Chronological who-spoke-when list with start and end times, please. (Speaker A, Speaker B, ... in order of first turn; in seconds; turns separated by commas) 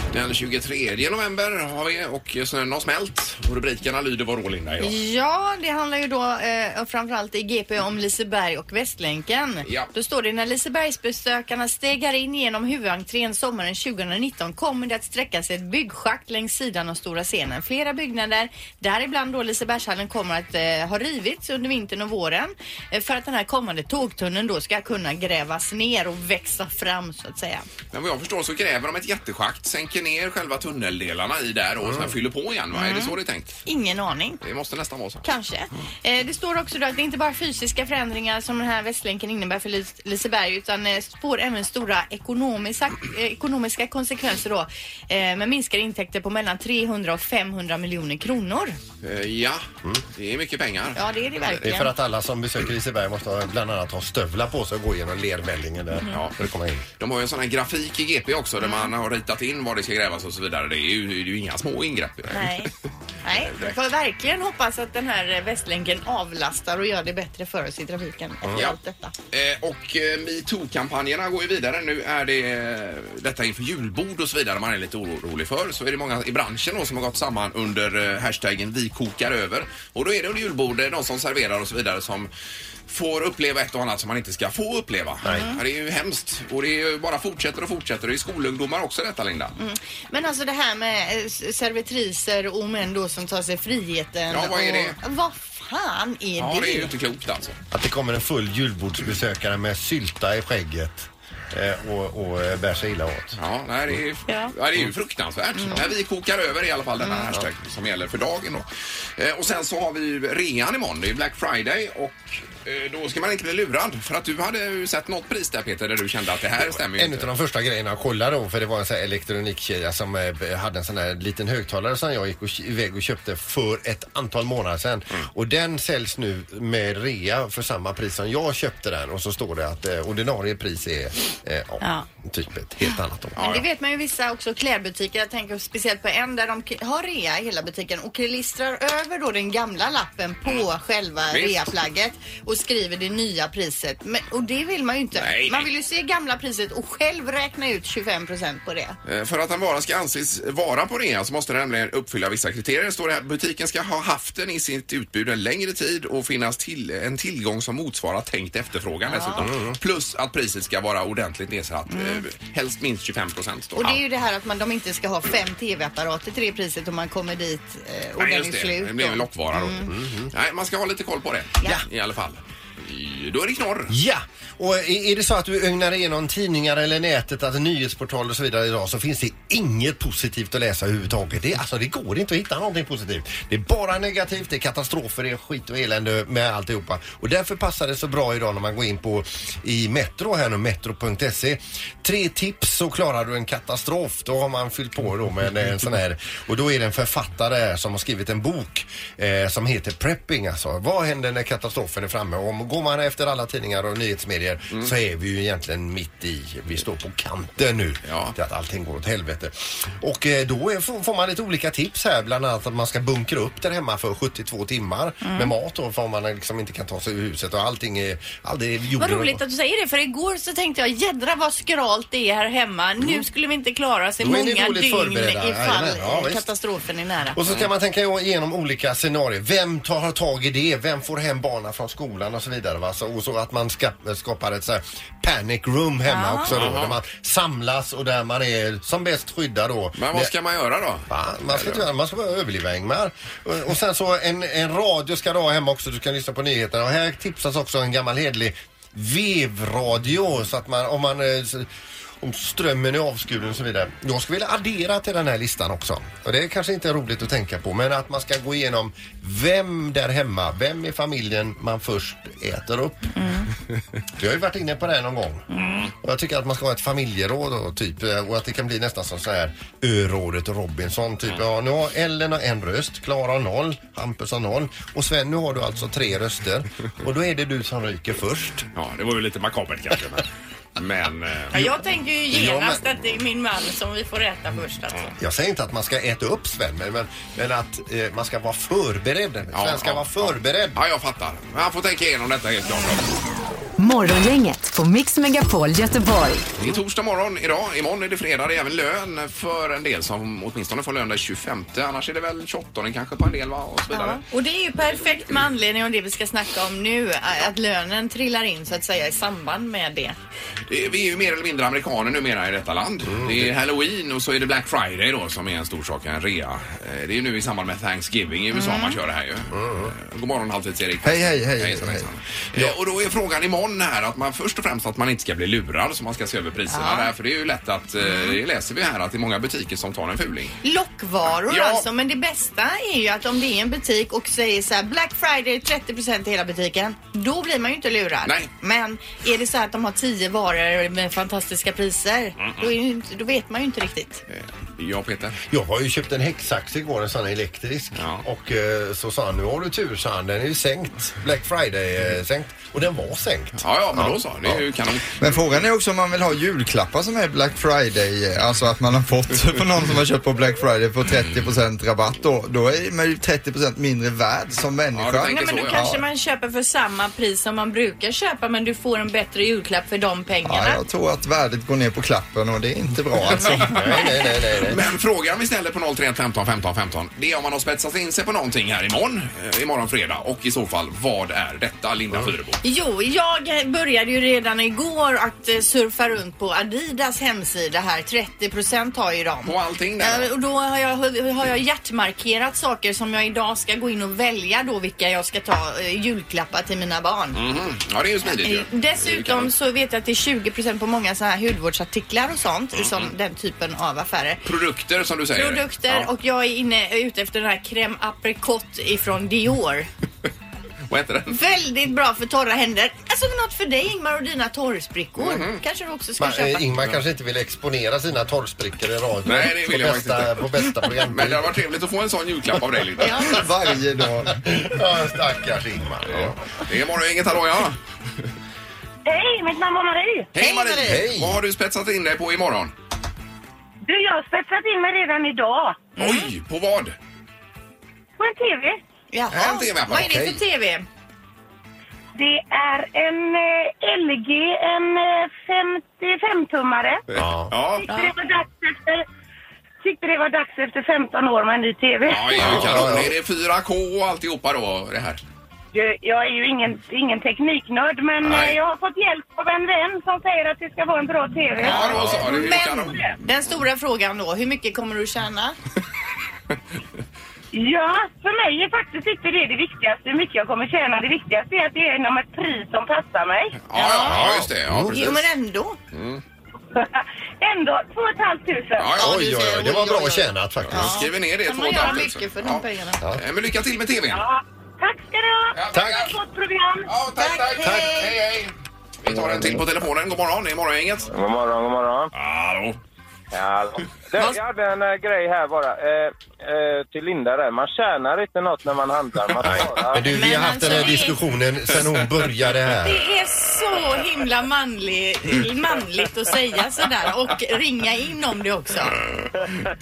Speaker A: 0.1-5.0, Speaker B: 4.8-27.7, Speaker A: 9.6-9.9, Speaker A: 27.9-33.6, Speaker C: 31.8-32.1, Speaker B: 32.7-34.4, Speaker A: 34.4-35.2, Speaker B: 35.2-48.8, Speaker A: 49.0-51.6, Speaker B: 51.0-51.9, Speaker C: 51.6-56.8, Speaker A: 56.1-56.4, Speaker A: 57.0-62.7, Speaker B: 58.6-58.9, Speaker B: 62.3-62.7, Speaker B: 63.2-69.1, Speaker A: 63.4-63.8, Speaker A: 69.3-82.3, Speaker A: 82.9-89.6, Speaker C: 85.2-85.5, Speaker B: 85.3-85.6, Speaker B: 89.6-96.9, Speaker A: 94.3-95.0, Speaker A: 96.4-97.6, Speaker C: 97.7-103.4, Speaker A: 103.4-117.3, Speaker B: 104.3-104.5, Speaker C: 116.7-133.4, Speaker B: 131.8-132.1, Speaker B: 132.8-149.0, Speaker A: 133.4-133.6, Speaker A: 141.3-141.7, Speaker A: 145.2-145.7, Speaker A: 149.1-164.0, Speaker B: 159.1-159.5, Speaker C: 159.4-159.8, Speaker B: 161.9-162.2, Speaker B: 163.8-169.9, Speaker A: 168.2-173.9, Speaker C: 169.9-170.3, Speaker C: 173.9-219.4, Speaker A: 208.1-208.4, Speaker B: 215.2-215.5, Speaker B: 219.0-227.4, Speaker C: 223.0-223.2, Speaker C: 224.2-226.5, Speaker C: 227.3-240.3, Speaker B: 236.1-236.5, Speaker A: 236.5-237.0, Speaker A: 240.0-241.9, Speaker C: 241.1-251.7, Speaker C: 252.2-263.1, Speaker B: 263.1-263.5, Speaker C: 264.2-265.5, Speaker B: 265.5-265.9, Speaker A: 265.6-265.9, Speaker C: 266.0-278.7, Speaker A: 278.8-281.6, Speaker B: 281.5-285.1, Speaker C: 282.3-282.8, Speaker C: 285.2-290.8, Speaker A: 289.5-293.1, Speaker D: 293.8-296.5, Speaker A: 296.6-304.2, Speaker B: 303.9-310.2, Speaker A: 310.7-330.6, Speaker C: 313.1-313.5, Speaker B: 318.5-319.0, Speaker C: 319.5-319.9, Speaker E: 321.0-322.1, Speaker B: 326.7-327.1, Speaker B: 328.0-328.4, Speaker B: 330.6-344.2, Speaker A: 331.5-331.9, Speaker A: 342.4-342.6, Speaker A: 344.3-345.4, Speaker C: 345.5-354.6, Speaker A: 348.0-348.2, Speaker A: 353.6-355.3, Speaker E: 355.2-366.0, Speaker A: 364.9-365.9, Speaker B: 365.3-370.8, Speaker E: 370.5-373.9, Speaker C: 373.4-374.8, Speaker A: 374.6-382.6, Speaker B: 382.6-397.4, Speaker A: 389.4-390.3, Speaker A: 397.3-399.5, Speaker B: 398.2-404.4, Speaker A: 402.8-403.1, Speaker A: 404.4-406.1, Speaker B: 405.4-409.9, Speaker A: 410.9-411.4, Speaker B: 411.3-416.7, Speaker A: 415.2-415.6, Speaker C: 416.2-421.6, Speaker A: 419.2-423.4, Speaker B: 423.0-423.4, Speaker E: 423.2-424.4, Speaker C: 424.3-426.4, Speaker A: 426.1-427.8, Speaker F: 429.1-430.3, Speaker A: 430.4-432.7, Speaker B: 430.4-431.0, Speaker C: 430.9-431.4, Speaker F: 433.9-435.9, Speaker B: 436.0-436.3, Speaker A: 436.0-437.0, Speaker F: 438.2-438.8, Speaker B: 439.1-440.9, Speaker A: 439.3-440.3, Speaker C: 439.9-440.4, Speaker F: 442.2-447.0, Speaker C: 447.1-447.6, Speaker A: 447.1-447.9, Speaker F: 447.8-449.1, Speaker F: 449.8-452.6, Speaker A: 452.1-455.2, Speaker C: 452.4-453.1, Speaker F: 455.7-463.1, Speaker A: 458.2-458.6, Speaker A: 461.6-463.0, Speaker B: 461.6-465.6, Speaker C: 461.9-462.2, Speaker F: 467.5-473.6, Speaker A: 473.6-475.3, Speaker B: 473.8-474.3, Speaker C: 474.1-475.1, Speaker B: 474.9-475.8, Speaker A: 475.9-476.2, Speaker F: 476.8-479.0, Speaker A: 478.8-479.2, Speaker C: 479.0-481.0, Speaker B: 479.0-483.0, Speaker A: 480.6-484.2, Speaker F: 484.1-486.9, Speaker A: 485.5-486.1, Speaker C: 485.7-486.0, Speaker A: 486.9-491.1, Speaker B: 487.2-488.1, Speaker C: 487.6-488.0, Speaker G: 491.1-492.1, Speaker A: 492.1-492.8, Speaker G: 493.3-500.1, Speaker C: 499.4-503.0, Speaker B: 500.1-501.2, Speaker B: 502.8-509.0